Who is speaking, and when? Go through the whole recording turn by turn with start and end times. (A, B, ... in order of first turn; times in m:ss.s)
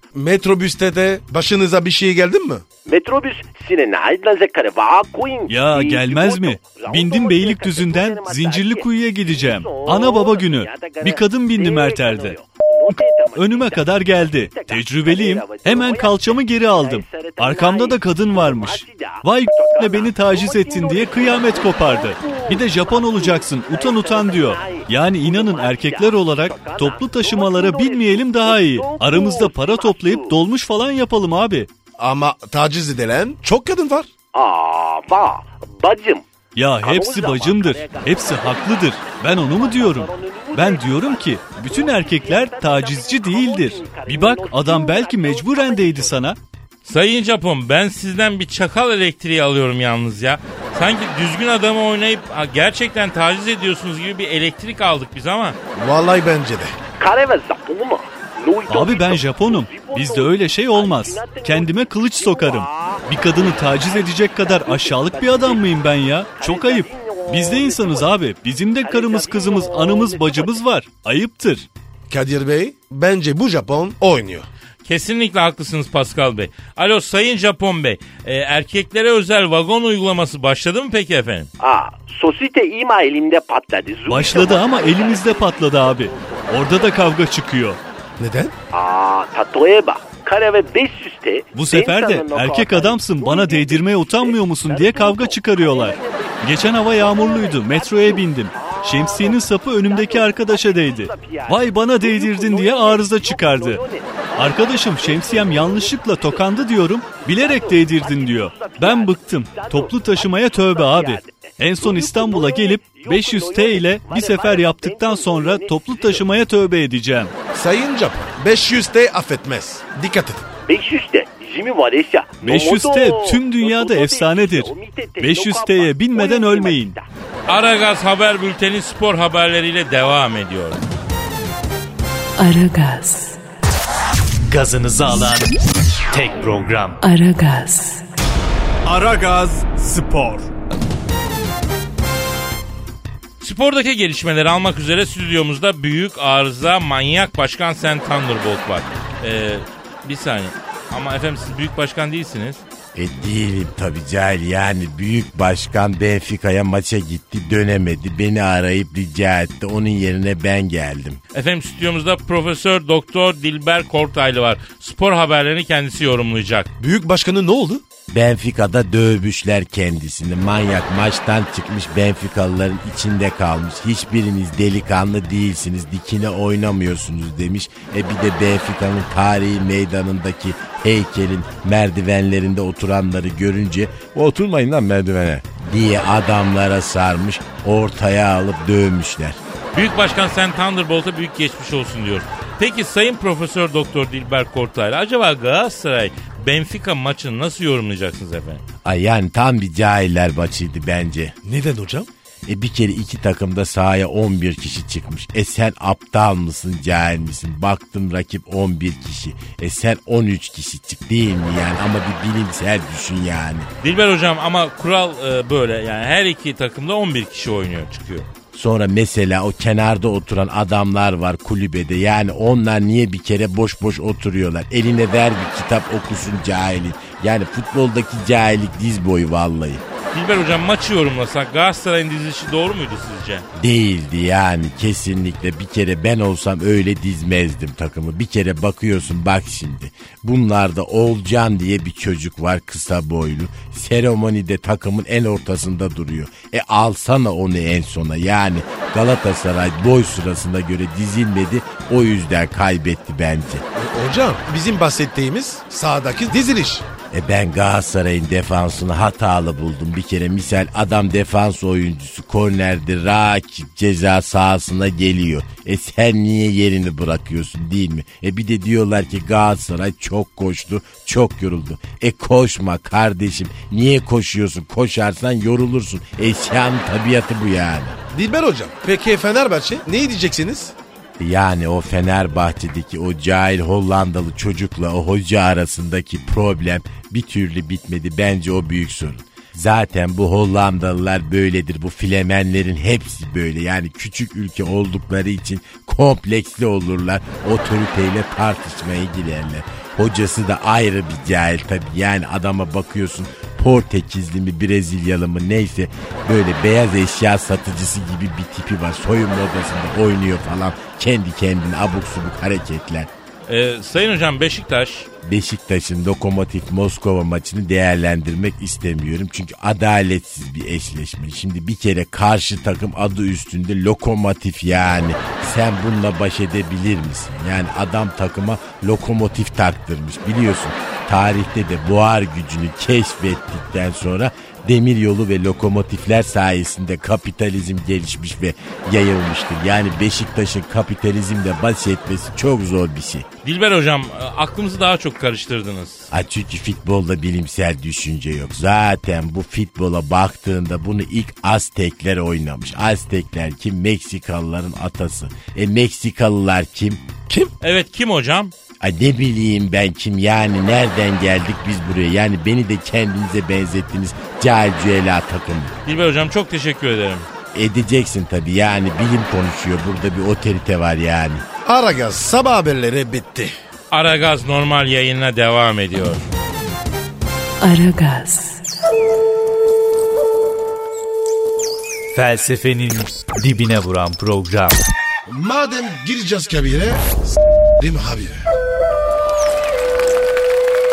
0:00.1-0:02.6 A
0:02.9-0:30.4 B
0:05.5-0:12.4 C
0:12.9-0:31.7 C
0:32.0-0:34.1 A
0:34.3-0:36.2 B
0:36.6-0:46.4 C
0:36.8-0:46.2 B
0:46.8-0:55.6 D
0:55.7-0:56.8 A
0:57.0-1:08.2 B
0:58.7-1:11.7 C
1:08.8-1:10.6 B
1:12.1-1:14.5 A
1:14.8-1:21.5 D
1:21.6-1:27.0 B
1:24.1-1:27.8 C
1:28.2-1:28.6 A
1:28.7-1:56.3 B
1:31.5-1:43.8 C
1:44.4-1:57.3 C
1:57.5-2:00.5 A
2:00.7-2:07.0 B
2:02.4-2:07.0 C
2:07.5-2:10.8 D
2:12.4-2:13.4 E
2:14.5-2:15.5 F
2:16.1-2:17.0 F
2:17.0-2:18.0 E
2:23.4-2:32.6 D
2:32.9-2:41.2 G
2:41.3-2:46.7 D
2:46.8-2:47.8 A
2:48.1-3:09.4 G
3:09.7-3:18.6 D
3:18.8-3:21.4 G
3:21.4-3:22.1 A
3:22.5-3:33.7 G
3:33.8-3:38.3 D
3:38.5-3:49.8 G
3:50.1-3:53.5 D
3:53.6-4:13.6 G
4:13.8-4:16.9 A
4:17.1-4:38.0 G
4:38.1-4:40.8 A
4:41.2-5:13.1 G
5:13.5-5:15.1 D
5:15.2-5:43.3 G
5:43.4-5:46.1 D
5:46.1-5:57.1 G
5:57.6-5:58.5 D
5:58.8-6:05.7 G
6:05.8-6:07.3 D
6:07.5-6:11.4 G
6:11.6-6:13.5 A
6:13.9-6:16.3 D
6:17.6-6:18.6 E
6:22.1-6:24.8 F
6:25.3-6:27.1 A
6:27.8-6:28.4 A